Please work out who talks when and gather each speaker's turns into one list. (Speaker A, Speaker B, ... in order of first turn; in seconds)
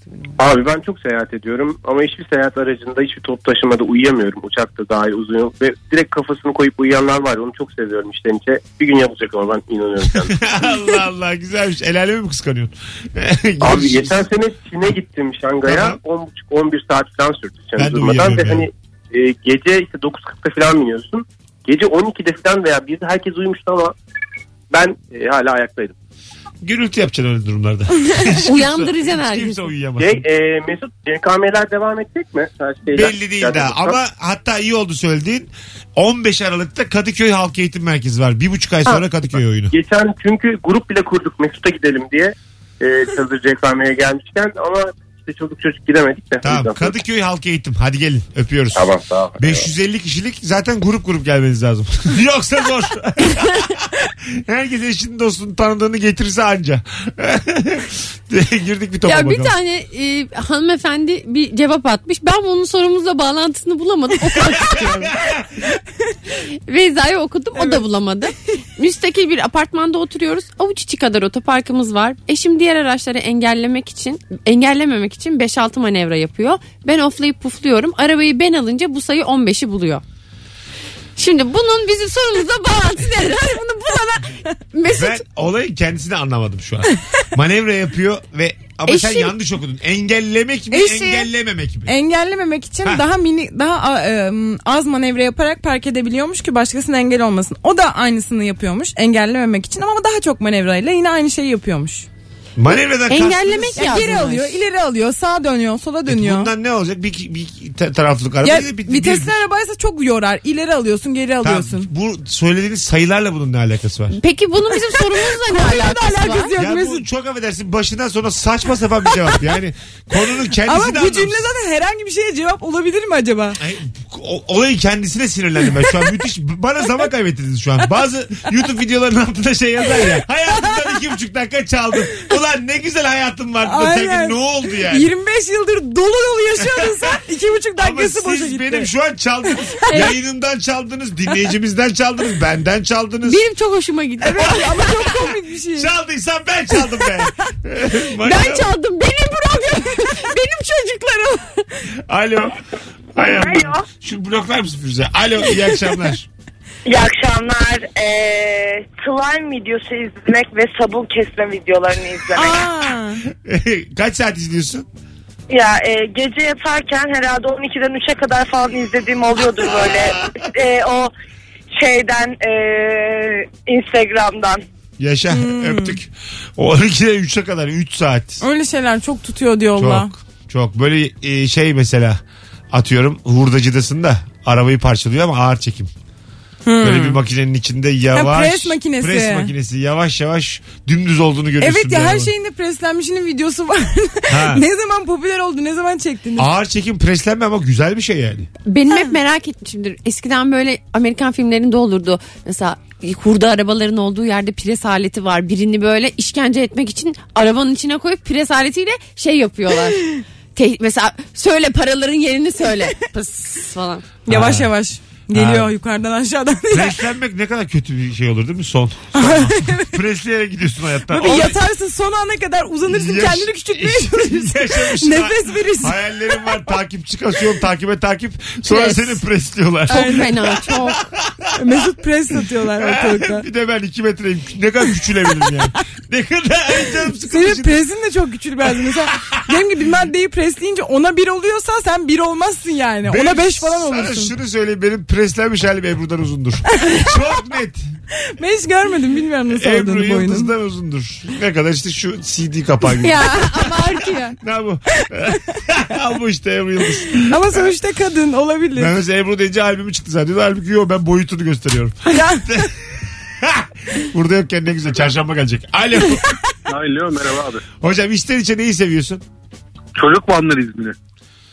Speaker A: 0.4-10.5, 13.6-23.9, 24.7-25.9, 30.0-34.0, 39.7-46.9, 48.7-49.7
Speaker B: 10.2-14.2, 15.6-16.0, 17.8-18.7, 26.6-30.2, 32.9-39.7, 46.4-59.5, 64.4-65.4, 84.9-91.9, 102.6-103.9, 106.0-109.4, 111.4-114.2, 116.5-121.5, 123.6-135.1, 137.8-143.4, 144.4-145.2, 145.7-148.7, 152.1-152.6, 153.1-156.3, 163.3-164.9, 169.9-170.3, 175.0-178.4, 179.8-182.2, 182.7-185.9, 186.8-192.3, 194.3-194.6, 196.4-198.5, 214.3-214.7, 215.3-215.7, 216.7-221.6, 222.9-231.8, 232.8-237.8, 238.7-239.6, 243.1-247.8, 249.5-253.8, 254.3-257.7, 258.7-266.2, 267.8-269.2
Speaker C: 28.2-29.7, 59.0-65.2, 66.3-80.0, 81.2-85.2, 88.9-89.3, 103.1-104.5, 114.1-116.5, 143.2-144.8, 148.2-151.7, 198.7-214.1, 228.7-229.2, 229.9-231.1, 253.0-254.4
Speaker D: 67.5-67.8, 90.7-91.3, 91.9-102.0, 103.8-106.5, 108.4-111.9, 114.9-117.0, 120.6-123.6, 133.6-138.9, 144.2-145.9, 162.3-163.2, 175.3-176.0, 178.4-180.1, 186.6-187.2, 188.1-189.5, 191.6-196.5, 214.2-217.0, 219.1-219.9, 221.1-225.9, 229.9-230.3, 231.6-233.4, 237.2-244.3, 246.8-247.1, 248.4-250.5, 257.3-258.9, 262.1-262.6
Speaker E: 153.4-153.7, 156.9-162.6, 165.5-171.1, 171.8-174.6
Speaker F: 266.7-267.6, 269.9-270.9